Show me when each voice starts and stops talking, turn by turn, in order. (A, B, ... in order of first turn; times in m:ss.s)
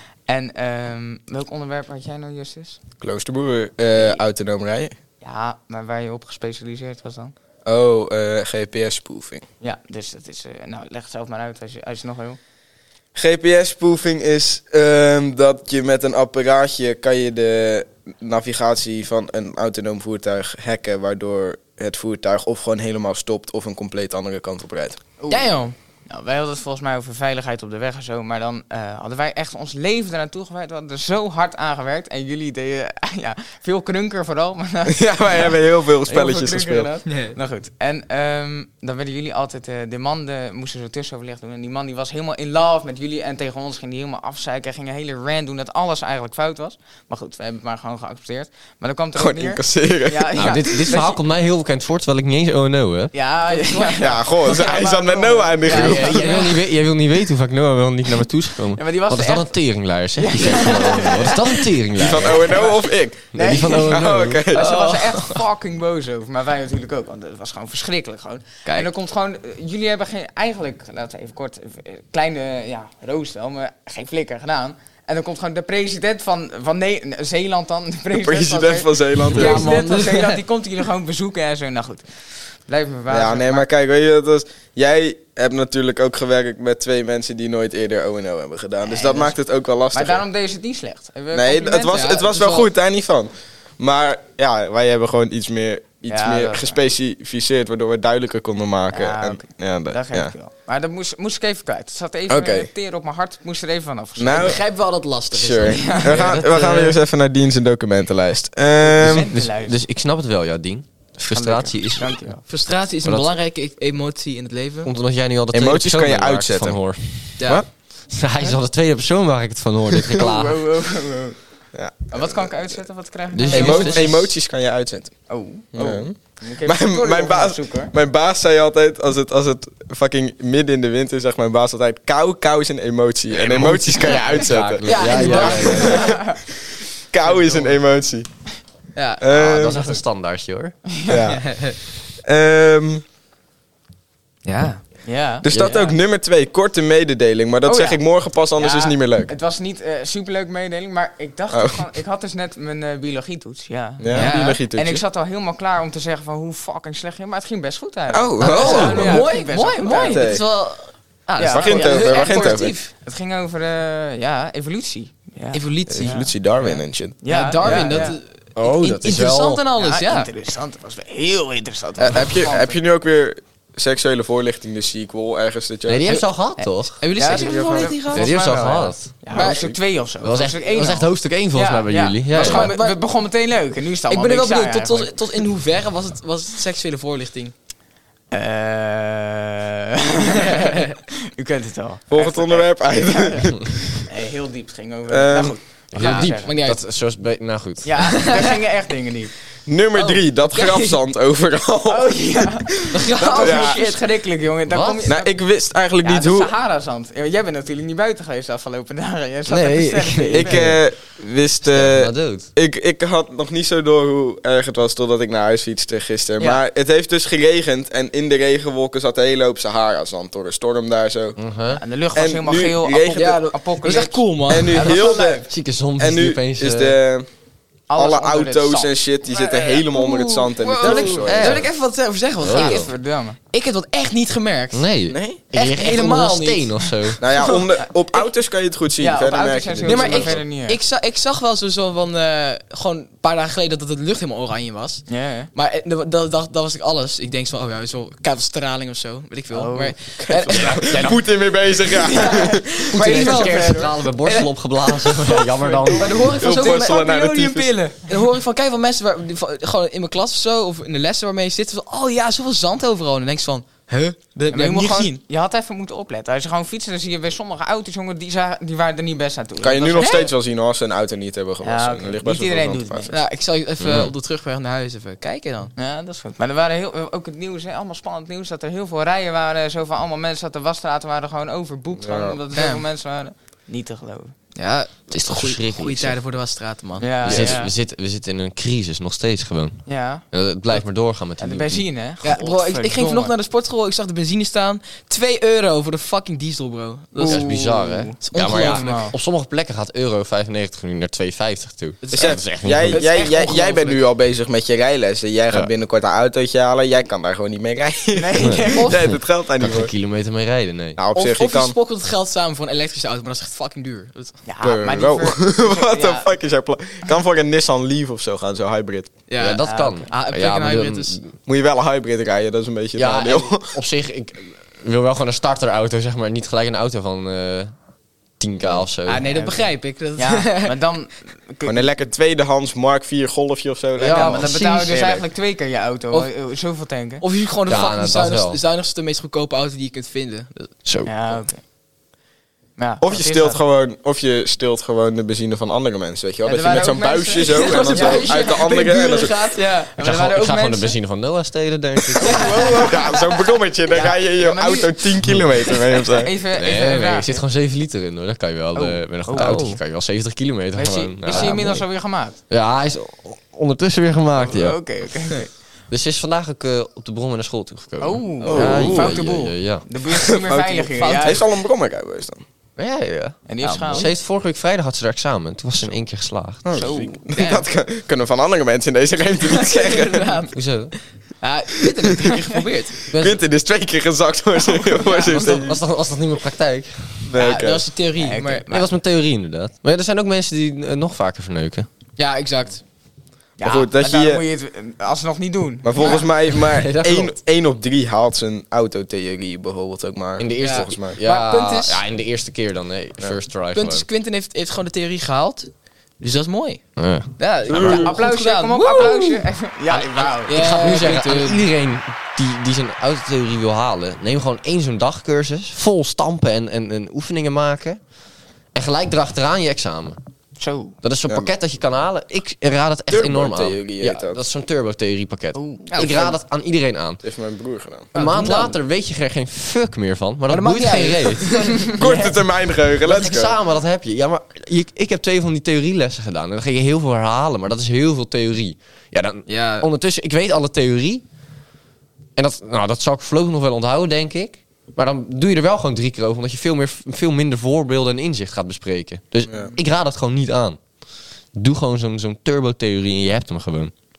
0:00.3-0:02.8 A
0:03.0-0:04.9 B
0:04.0-0:04.2 A
0:05.2-0:07.3 A
0:07.7-0:09.4 B
0:09.6-0:12.4 A
0:13.2-0:25.0 B
0:25.2-0:51.2 A
0:25.3-0:25.7 C
0:34.9-0:36.9 B
0:37.1-0:37.4 C
0:49.2-0:50.3 B
0:50.4-0:53.1 D
0:53.1-0:56.5 A
0:54.0-0:56.3 B
0:55.7-1:02.6 D
0:55.7-0:56.5 C
0:58.8-0:59.5 A
1:00.2-1:23.7 A
1:02.0-1:04.6 B
1:03.3-1:04.5 D
1:04.5-1:05.4 C
1:18.2-1:19.7 B
1:19.3-1:20.4 C
1:23.1-1:30.2 B
1:28.8-1:29.4 A
1:29.9-1:32.0 A
1:31.3-1:40.3 B
1:31.8-1:32.7 C
1:36.1-1:36.8 A
1:38.9-1:44.6 A
1:42.3-1:42.7 B
1:44.2-1:44.6 B
1:44.3-1:47.0 C
1:45.3-1:49.3 B
1:45.6-1:46.4 A
1:48.8-1:49.8 A
1:49.0-1:52.2 D
1:51.3-1:52.4 A
1:52.5-1:54.9 C
1:53.0-1:53.3 D
1:54.8-1:57.4 D
1:55.5-1:56.8 B
1:57.4-1:57.6 C
1:57.4-1:57.7 B
1:58.1-2:00.6 D
2:00.1-2:01.4 A
2:01.7-2:02.5 B
2:02.1-2:04.2 A
2:03.3-2:04.2 D
2:03.5-2:05.1 B
2:03.5-2:03.9 C
2:05.3-2:07.9 A
2:05.7-2:16.4 B
2:13.3-2:16.2 D
2:14.8-2:16.2 C
2:15.1-2:16.4 A
2:17.1-2:18.3 B
2:19.0-2:19.2 C
2:19.2-2:20.0 B
2:19.3-2:20.8 D
2:20.9-2:21.2 A
2:21.1-2:21.7 B
2:21.5-2:21.8 C
2:22.2-2:23.0 B
2:24.4-2:24.8 C
2:25.0-2:25.9 A
2:25.4-2:29.3 B
2:27.6-2:28.0 A
2:28.6-2:40.4 A
2:31.5-2:31.8 B
2:34.0-2:35.0 B
2:34.1-2:34.6 C
2:38.1-2:39.3 B
2:38.4-2:39.2 D
2:38.4-2:42.9 C
2:39.9-2:40.4 B
2:41.4-2:48.2 A
2:41.5-2:42.7 B
2:45.5-2:46.2 C
2:45.9-2:48.1 B
2:47.3-2:50.3 C
2:48.6-2:49.6 D
2:49.8-2:52.8 A
2:52.0-2:56.1 B
2:55.9-2:57.0 D
2:56.8-2:58.4 C
2:57.2-3:05.2 A
2:57.3-2:57.9 B
2:58.1-2:59.1 D
2:59.3-2:59.8 B
2:59.3-2:59.7 C
3:00.2-3:02.7 D
3:02.3-3:03.0 C
3:04.1-3:07.5 C
3:08.3-3:16.6 A
3:10.5-3:10.8 C
3:12.1-3:14.1 B
3:15.1-3:15.6 B
3:15.9-3:18.2 D
3:16.0-3:16.8 C
3:17.8-3:19.3 A
3:18.0-3:18.5 C
3:19.7-3:23.8 B
3:20.0-3:21.0 C
3:21.9-3:25.4 A
3:22.9-3:24.0 C
3:24.7-3:25.1 D
3:25.1-3:26.5 B
3:26.0-3:30.7 A
3:29.5-3:30.8 D
3:30.3-3:41.4 B
3:31.6-3:32.5 D
3:41.4-3:41.8 D
3:41.7-3:45.4 A
3:42.2-3:43.4 B
3:43.2-3:45.0 C
3:44.5-3:45.5 B
3:45.4-3:47.0 D
3:46.0-3:47.3 B
3:47.9-3:49.8 A
3:48.0-3:51.6 B
3:49.9-3:52.9 C
3:50.8-3:51.7 D
3:52.4-3:52.9 D
3:52.4-3:53.4 A
3:53.5-3:54.9 C
3:54.7-3:57.2 D
3:55.1-3:55.4 B
3:55.5-3:57.6 C
3:57.2-4:00.4 B
3:59.0-4:00.8 A
3:59.8-4:11.0 C
4:05.1-4:05.5 A
4:09.5-4:10.0 A
4:10.2-4:12.9 B
4:10.5-4:11.2 D
4:12.1-4:14.0 A
4:12.9-4:17.5 C
4:12.9-4:16.3 D
4:15.2-4:18.2 A
4:16.4-4:17.8 B
4:18.0-4:25.2 C
4:24.5-4:30.3 A
4:29.6-4:33.1 B
4:31.6-4:33.2 A
4:33.1-4:35.7 C
4:33.8-4:34.1 D
4:35.8-4:44.4 A
4:42.0-4:42.4 B
4:42.6-4:42.8 C
4:44.6-4:47.5 C
4:45.1-4:46.2 D
4:47.0-4:47.7 A
4:47.2-4:51.8 D
4:49.9-4:50.2 A
4:51.4-4:53.3 A
4:52.2-4:57.4 C
4:57.2-4:59.2 A
4:57.2-5:03.0 D
4:58.2-4:59.1 C
5:02.0-5:02.4 C
5:02.1-5:09.9 B
5:02.9-5:04.0 C
5:08.1-5:09.0 A
5:08.8-5:09.0 C
5:09.1-5:11.0 D
5:11.0-5:11.7 B
5:11.2-5:14.4 C
5:14.4-5:16.3 A
5:14.6-5:19.1 B
5:19.3-5:21.2 C
5:19.4-5:21.3 D
5:19.6-5:20.0 A
5:21.5-5:23.8 B
5:23.0-5:27.7 D
5:28.4-5:29.3 D
5:29.1-5:30.7 C
5:29.1-5:31.9 A
5:31.6-5:35.2 B
5:34.0-5:34.9 D
5:34.0-5:37.2 A
5:37.2-5:40.7 C
5:37.7-5:38.6 D
5:40.8-5:41.1 D
5:41.1-5:41.6 A
5:42.8-5:43.6 A
5:43.0-5:49.4 B
5:46.4-5:48.6 A
5:47.4-5:49.9 C
5:49.5-5:51.0 A
5:50.0-5:52.5 D
5:52.2-5:53.0 C
5:52.2-5:53.2 A
5:52.6-5:56.3 B
5:53.9-5:55.2 A
5:55.7-5:57.4 A
5:56.5-6:01.9 D
5:58.8-5:59.7 A
5:59.3-5:59.8 C
6:00.8-6:02.4 A
6:02.5-6:04.8 D
6:04.4-6:05.5 A
6:05.9-6:09.8 D
6:08.0-6:11.4 A
6:08.4-6:09.2 B
6:10.1-6:12.4 B
6:11.0-6:11.3 C
6:12.8-6:16.8 D
6:13.5-6:14.1 A
6:13.7-6:14.0 C
6:16.6-6:20.3 B
6:16.8-6:17.2 A
6:17.4-6:17.6 C
6:19.5-6:20.5 C
6:20.5-6:20.9 D
6:21.4-6:23.0 C
6:23.1-6:25.8 B
6:23.1-6:23.4 D
6:25.2-6:27.3 D
6:27.3-6:27.9 B
6:27.4-6:28.6 C
6:28.2-6:28.9 A
6:28.7-6:31.9 D
6:32.2-6:32.8 C
6:33.6-6:36.2 A
6:33.6-6:34.4 B
6:35.8-6:41.2 B
6:36.0-6:36.2 C
6:36.5-6:37.4 D
6:40.4-6:44.1 D
6:40.6-6:42.0 C
6:43.7-6:46.8 C
6:47.0-6:47.8 D
6:47.4-6:49.4 C
6:47.7-6:48.1 B
6:47.7-6:51.0 A
6:49.9-6:58.0 D
6:50.0-6:51.6 C
6:58.7-7:00.2 D
7:00.6-7:01.0 A
7:01.0-7:07.2 D
7:03.1-7:04.4 B
7:05.6-7:06.3 A
7:05.9-7:06.3 C
7:07.2-7:08.1 B
7:08.1-7:11.9 D
7:08.2-7:08.8 C
7:10.5-7:12.0 C
7:11.9-7:13.6 B
7:13.0-7:21.2 D
7:19.5-7:19.9 C
7:22.4-7:30.8 D
7:29.5-7:29.8 B
7:31.5-7:33.9 D